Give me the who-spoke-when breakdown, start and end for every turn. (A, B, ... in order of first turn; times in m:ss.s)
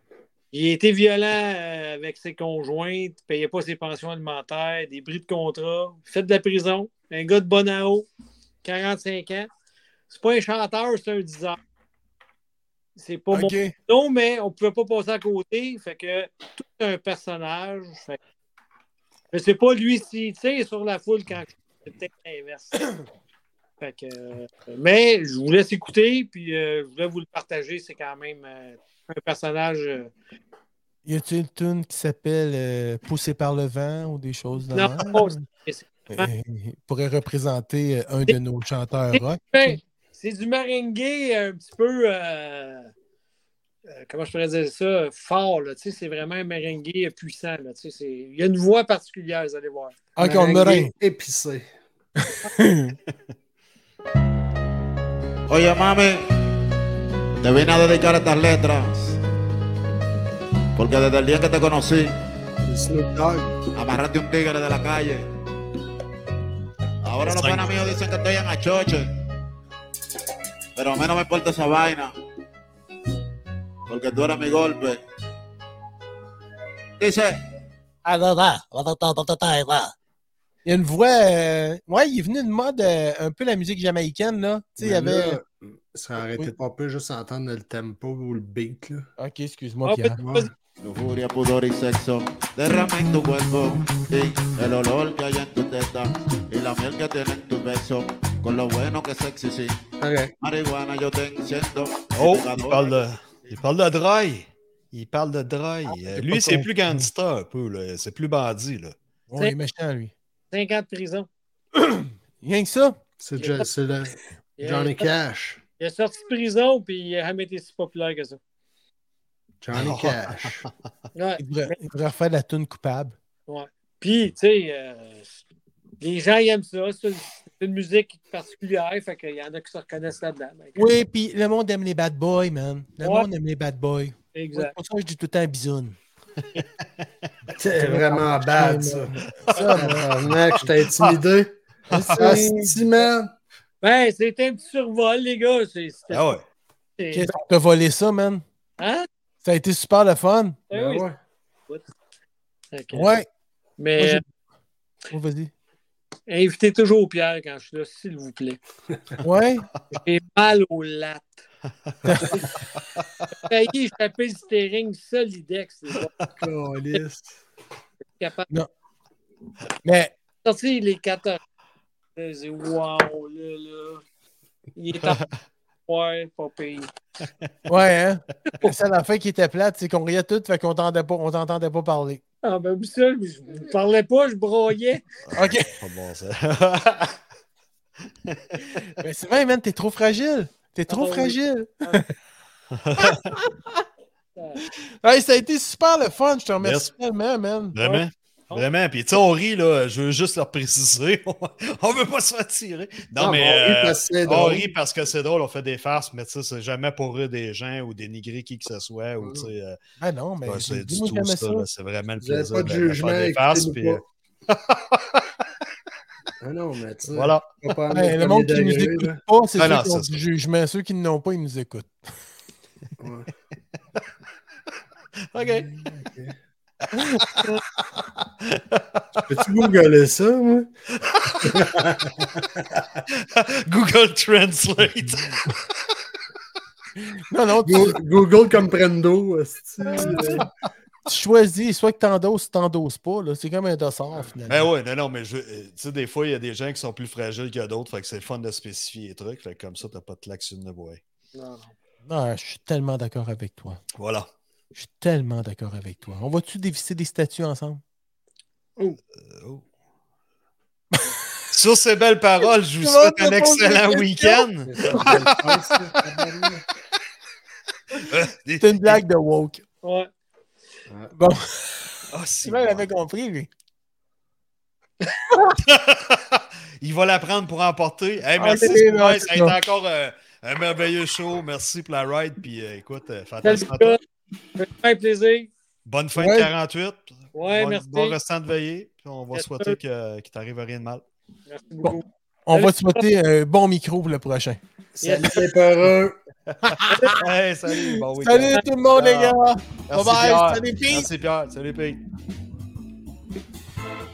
0:00.5-0:08.1 A
0:08.6-0:09.5 A
0:10.1-0:11.6 A
0:13.0-0:18.2 A
0:13.3-0:13.7 B
0:19.3-0:22.8 A
0:23.8-0:30.1 A
0:31.0-0:35.4 B
0:34.7-0:36.3 A
0:36.1-0:39.8 B
0:39.1-0:42.9 A
0:43.9-0:50.0 A
0:50.2-0:50.9 B
0:50.2-0:51.7 C
0:52.2-0:52.9 B
0:55.5-0:56.2 D
0:57.4-0:59.2 D
1:00.8-1:02.1 D
1:02.6-1:03.5 C
1:03.7-1:05.3 D
1:07.0-1:09.2 D
1:07.2-1:08.0 E
1:10.8-1:12.1 D
1:13.9-1:15.0 D
1:17.0-1:17.4 D
1:18.1-1:18.6 B
1:20.6-1:25.4 B
1:24.8-1:29.0 C
1:29.2-1:30.2 B
1:29.8-1:30.5 A
1:30.2-1:30.5 C
1:30.8-1:39.8 D
1:40.0-1:40.3 C
1:40.4-1:43.0 D
1:42.1-1:49.0 E
1:45.9-1:46.7 B
1:49.3-1:50.1 B
1:50.5-1:51.3 A
1:51.8-1:53.0 B
1:53.2-1:55.6 C
1:53.4-1:53.6 A
1:54.6-1:55.1 A
1:55.8-1:58.4 A
1:59.6-2:00.6 C
1:59.7-2:00.7 E
2:01.1-2:01.8 A
2:01.4-2:03.1 B
2:03.5-2:05.4 A
2:06.0-2:10.8 A
2:10.8-2:16.0 B
2:13.0-2:13.3 A
2:14.3-2:14.7 A
2:16.5-2:17.0 E
2:17.5-2:19.1 C
2:17.8-2:20.1 B
2:19.4-2:19.7 E
2:19.7-2:21.6 C
2:20.6-2:21.1 E
2:21.9-2:22.3 E
2:21.9-2:22.8 B
2:22.1-2:23.3 C
2:23.8-2:26.4 A
2:26.1-2:26.4 E
2:27.0-2:27.3 A
2:27.1-2:28.4 B
2:28.8-2:29.1 A
2:29.4-2:30.6 B
2:30.7-2:31.0 A
2:30.7-2:31.2 C
2:32.7-2:33.1 A
2:32.9-2:33.2 B
2:33.8-2:34.2 A
2:34.0-2:34.2 B
2:35.1-2:35.5 B
2:36.3-2:38.6 A
2:39.2-2:39.7 B
2:39.9-2:41.4 A
2:42.0-2:42.4 B
2:42.8-2:43.2 E
2:43.4-2:46.1 A
2:46.3-2:47.4 C
2:48.2-2:48.5 A
2:49.8-2:50.1 B
2:50.4-2:51.4 A
2:52.2-2:54.0 A
2:54.8-2:55.2 A
2:55.9-2:56.9 A
2:57.7-3:02.2 B
3:02.4-3:05.0 A
3:05.3-3:07.2 E
3:05.3-3:05.7 B
3:08.2-3:08.7 E
3:09.0-3:12.0 B
3:10.9-3:12.0 A
3:12.7-3:13.4 E
3:14.6-3:17.7 B
3:16.6-3:16.9 E
3:17.7-3:29.8 E
3:17.8-3:18.7 A
3:23.2-3:24.7 C
3:29.2-3:29.5 C
3:30.0-3:31.6 B
3:30.4-3:35.4 E
3:32.2-3:34.0 C
3:36.4-3:39.2 C
3:37.1-3:37.4 E
3:37.9-3:41.9 B
3:39.6-3:40.2 E
3:43.0-3:43.3 C
3:45.3-3:45.7 E
3:45.4-3:46.4 C
3:47.0-3:47.5 E
3:48.2-3:49.2 E
3:49.3-3:50.7 C
3:51.1-3:51.6 E
3:51.4-3:53.0 C
3:53.1-3:55.9 E
3:57.3-3:58.0 B
3:57.6-4:00.5 C
3:59.8-4:00.4 B
4:01.1-4:04.7 B
4:04.5-4:11.0 E
4:11.3-4:11.7 A
4:12.0-4:13.8 B
4:14.0-4:14.3 E
4:14.8-4:17.8 B
4:19.2-4:19.6 E
4:21.5-4:25.3 E
4:22.8-4:24.4 B
4:24.7-4:26.6 C
4:28.1-4:29.0 E
4:28.6-4:29.6 B
4:29.8-4:30.1 A
4:31.1-4:31.9 B
4:32.1-4:32.8 E
4:32.4-4:33.5 B
4:35.6-4:44.0 E
4:38.4-4:39.6 B
4:38.5-4:38.8 A
4:43.4-4:44.0 A
4:44.6-4:45.5 A
4:45.8-4:51.0 E
4:46.2-4:46.5 B
4:47.3-4:48.2 A
4:49.3-4:49.8 A
4:51.5-4:53.0 A
4:51.8-4:54.6 B
4:55.0-4:56.2 C
4:55.0-4:55.4 A
4:56.5-5:02.0 E
4:56.6-4:57.2 B
4:56.9-4:57.2 A
4:57.8-5:01.1 B